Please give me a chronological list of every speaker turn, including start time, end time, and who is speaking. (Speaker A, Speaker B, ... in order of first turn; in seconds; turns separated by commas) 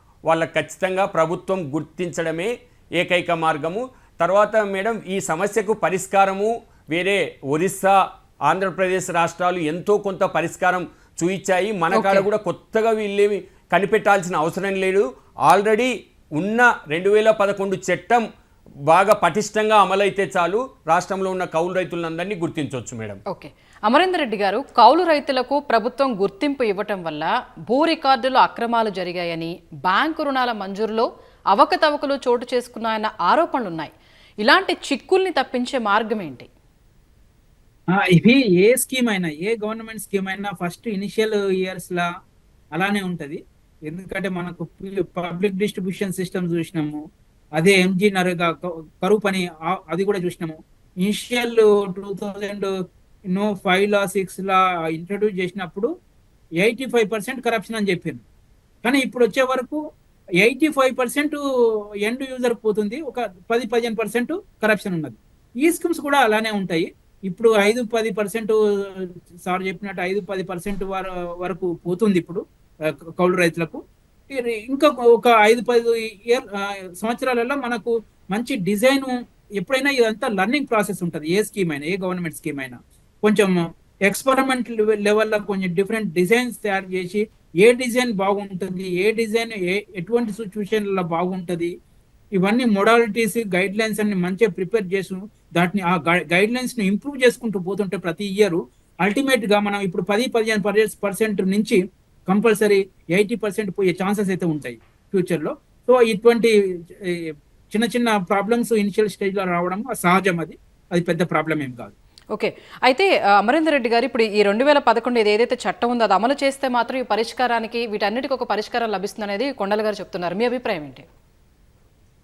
Speaker A: 0.3-18.3, Speaker B: 11.9-12.3, Speaker A: 18.9-23.2, Speaker B: 23.3-33.9, Speaker B: 34.4-36.5, Speaker C: 37.9-42.1, Speaker C: 42.8-47.0, Speaker C: 47.6-52.7, Speaker C: 53.3-55.9, Speaker C: 56.6-58.2, Speaker C: 58.8-59.8, Speaker C: 60.4-61.4, Speaker C: 62.0-72.4, Speaker C: 73.2-73.8, Speaker C: 74.3-83.5, Speaker C: 84.1-91.7, Speaker C: 92.4-111.9, Speaker B: 112.3-121.0